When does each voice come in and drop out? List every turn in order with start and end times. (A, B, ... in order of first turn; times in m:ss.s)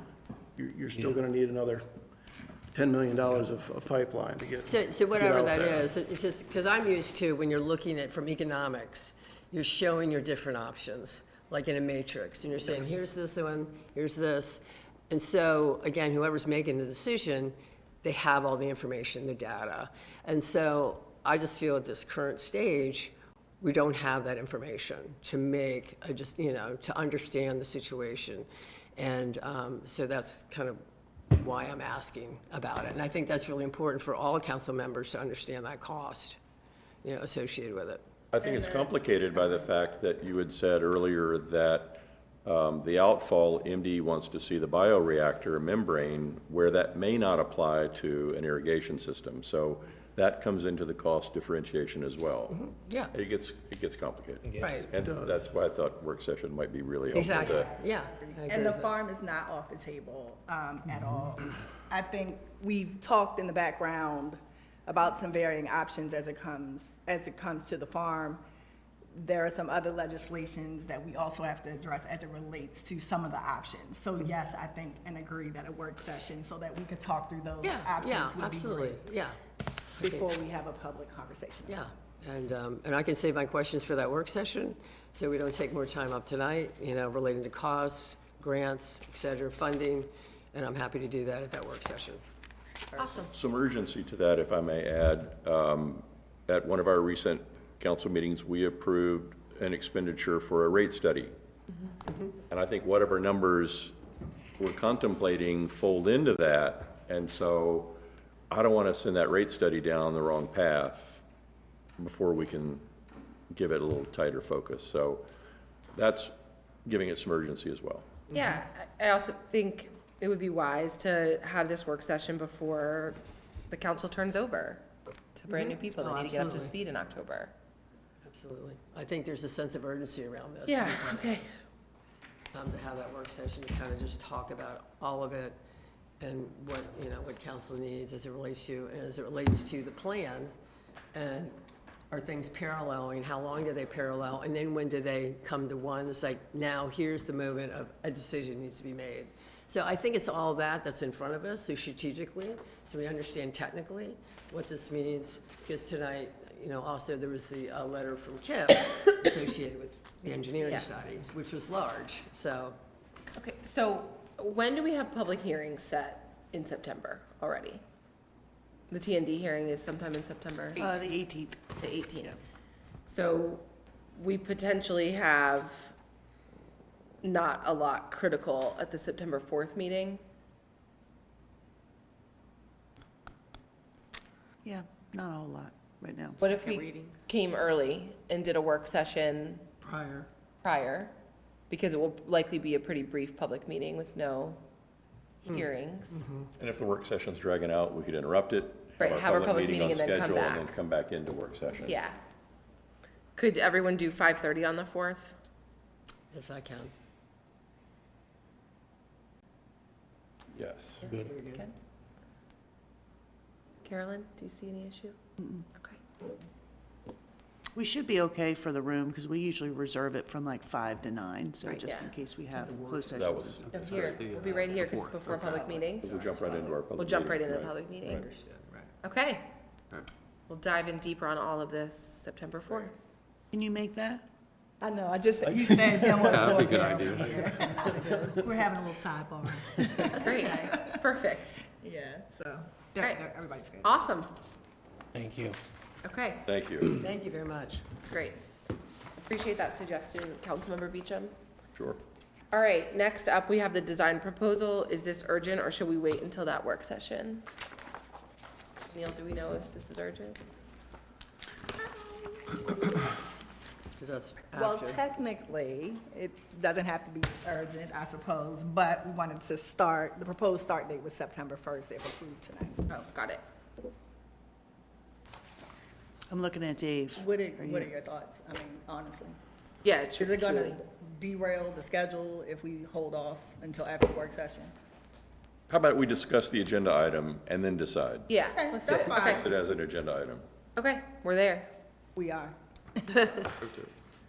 0:00.6-0:01.8 A
0:02.7-0:05.9 A
0:04.6-0:36.4 B
0:37.0-0:38.0 B
0:38.3-0:52.5 C
0:38.4-0:38.9 D
0:52.5-0:53.1 B
0:53.1-0:57.7 C
0:54.4-0:54.8 E
0:54.6-0:54.9 B
0:55.0-0:55.3 A
0:57.1-0:59.0 B
0:57.2-1:08.4 D
1:09.1-1:19.0 D
1:17.6-1:19.4 B
1:20.0-1:20.3 B
1:20.0-1:21.8 D
1:21.6-1:32.2 B
1:33.0-1:33.3 F
1:33.3-1:41.3 C
1:42.5-1:43.9 C
1:44.6-1:48.0 C
1:48.5-1:51.2 C
1:52.0-1:52.8 C
1:53.5-1:55.3 C
1:55.9-1:56.3 C
1:56.8-1:58.1 C
1:58.3-2:03.2 F
2:03.7-2:07.5 F
2:05.5-2:06.7 B
2:08.2-2:11.6 B
2:10.7-2:11.6 F
2:12.5-2:15.6 B
2:16.2-2:20.5 B
2:21.1-2:21.5 B
2:22.1-2:42.8 B
2:40.6-2:40.8 F
2:43.3-2:47.8 F
2:48.9-2:50.9 F
2:50.8-2:52.3 G
2:51.8-2:52.4 F
2:53.1-2:55.9 F
2:57.2-3:00.2 F
3:04.6-3:06.8 G
3:06.4-3:09.6 F
3:09.8-3:10.3 B
3:10.6-3:11.1 F
3:11.7-3:14.6 F
3:15.4-3:16.2 F
3:15.5-3:16.5 B
3:16.6-3:22.0 C
3:19.0-3:20.7 F
3:21.8-3:22.2 F
3:23.4-3:25.3 F
3:26.3-3:26.9 B
3:30.5-3:31.1 C
3:31.0-3:31.7 F
3:31.1-3:31.7 B
3:33.8-3:35.2 F
3:37.7-3:43.7 G
3:41.8-3:42.2 F
3:43.1-3:44.2 C
3:43.7-3:45.7 E
3:43.7-3:48.3 F
3:46.0-3:48.1 C
3:48.2-3:48.8 E
3:49.0-3:49.5 F
3:50.5-3:52.9 F
3:53.5-3:54.2 G
3:54.8-4:00.9 D
3:56.1-3:57.9 E
4:00.2-4:01.6 F
4:01.8-4:04.0 D
4:03.8-4:04.3 F
4:05.2-4:05.6 E
4:06.0-4:06.4 F
4:06.4-4:06.9 C
4:06.9-4:07.9 B
4:08.0-4:08.4 F
4:09.2-4:11.3 F
4:12.5-4:17.4 F
4:18.9-4:20.4 F
4:21.8-4:22.8 D
4:24.0-4:25.0 B
4:24.5-4:32.8 D
4:32.9-4:33.4 F
4:36.3-4:37.9 G
4:37.2-4:39.4 D
4:39.8-4:40.8 F
4:40.2-4:44.7 D
4:45.7-4:48.3 C
4:48.3-4:49.4 F
4:48.5-4:49.5 D
4:48.9-4:50.4 C
4:50.8-4:51.7 F
4:52.2-4:53.4 D
4:53.6-4:53.9 C